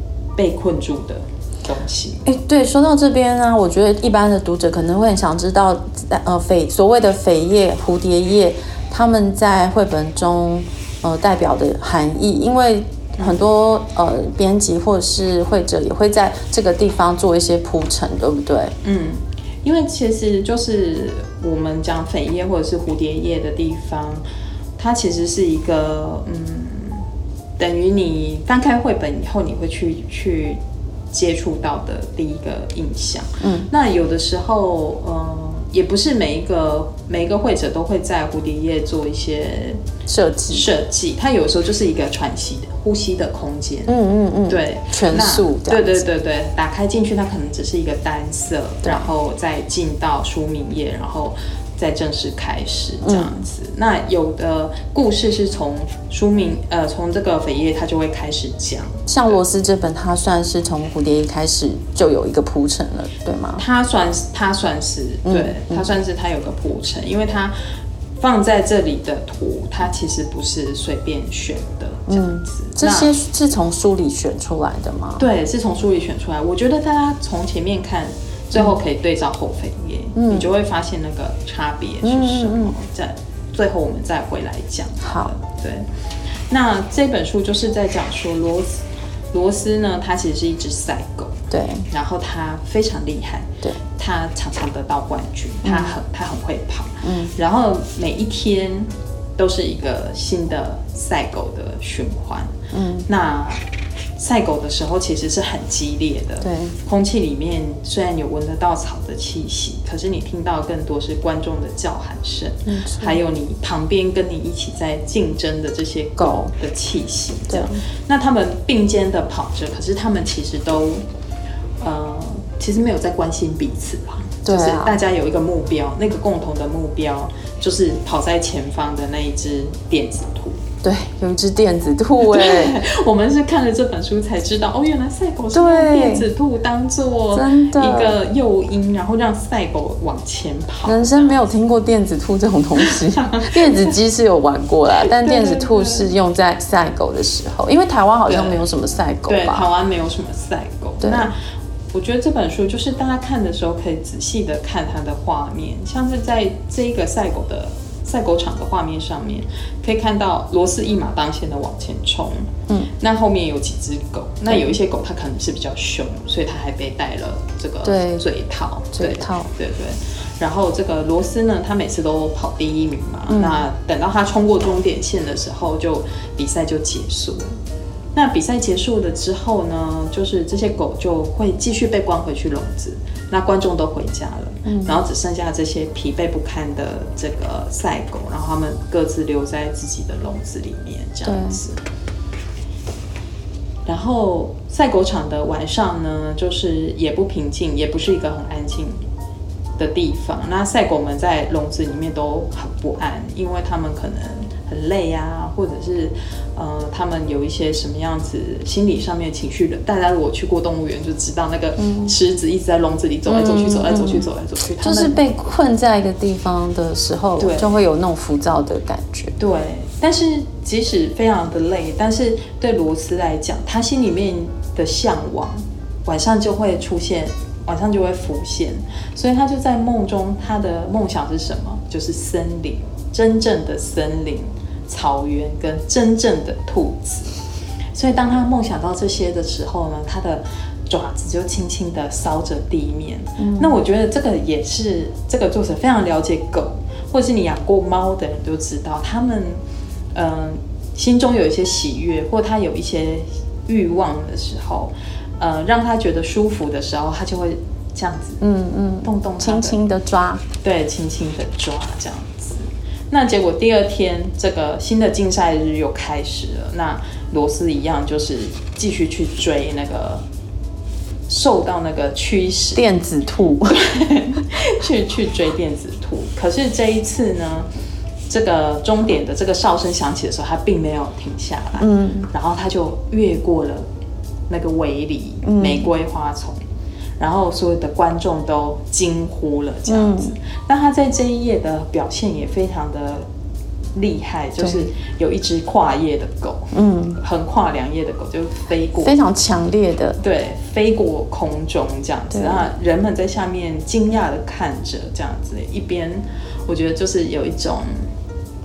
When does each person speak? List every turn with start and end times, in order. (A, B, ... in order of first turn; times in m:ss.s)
0:00.4-0:02.3 A
0:02.3-0:18.7 B
0:13.2-0:13.4 A
0:18.8-0:24.2 A
0:24.8-0:27.1 A
0:27.6-0:30.6 A
0:31.1-0:39.8 A
0:33.4-0:33.7 B
0:40.1-0:40.7 B
0:40.5-0:43.9 A
0:43.9-0:46.1 B
0:44.5-0:59.4 A
0:53.0-0:53.4 B
0:59.1-1:03.6 B
1:03.6-1:07.6 A
1:05.3-1:05.9 B
1:08.2-1:13.1 A
1:12.1-1:15.3 B
1:15.2-1:42.5 A
1:20.2-1:20.5 B
1:22.0-1:22.8 B
1:25.0-1:25.3 B
1:31.5-1:31.9 B
1:35.6-1:36.0 B
1:37.0-1:37.3 B
1:42.7-1:43.1 B
1:43.1-1:43.6 A
1:44.2-2:01.0 A
1:46.4-1:46.8 B
1:52.7-1:53.2 B
1:56.2-1:56.5 B
1:57.5-1:57.8 B
2:01.8-2:10.6 A
2:04.4-2:05.0 B
2:10.8-2:12.8 B
2:12.2-2:21.4 A
2:15.5-2:16.3 B
2:17.3-2:18.2 B
2:20.9-2:29.7 B
2:22.8-2:23.9 A
2:25.0-2:26.1 A
2:28.3-2:28.6 A
2:29.3-2:31.4 A
2:31.0-2:31.3 B
2:31.9-2:57.6 A
2:47.8-2:48.2 B
2:48.9-2:49.5 B
2:53.3-2:53.7 B
2:58.1-3:11.8 A
3:04.7-3:05.0 B
3:11.2-3:11.6 B
3:13.9-3:19.0 A
3:19.8-3:35.2 A
3:31.8-3:32.1 B
3:33.3-3:34.3 B
3:34.8-3:39.3 B
3:37.4-3:37.8 A
3:39.4-3:57.4 A
3:57.9-4:09.6 A
4:03.4-4:03.8 B
4:10.1-4:18.4 A
4:18.4-4:20.4 B
4:19.0-4:19.8 A
4:20.6-4:30.2 A
4:31.3-4:32.9 A
4:32.8-4:33.8 B
4:33.7-4:37.7 A
4:38.3-4:43.9 A
4:41.8-4:42.3 B
4:44.5-4:46.6 A
4:45.4-4:45.9 B
4:47.2-4:53.3 A
4:49.9-4:50.4 B
4:53.9-4:59.2 A
4:54.6-4:54.9 B
4:56.7-4:57.2 B
4:59.0-5:00.2 B
5:00.2-5:08.1 A
5:02.3-5:02.7 B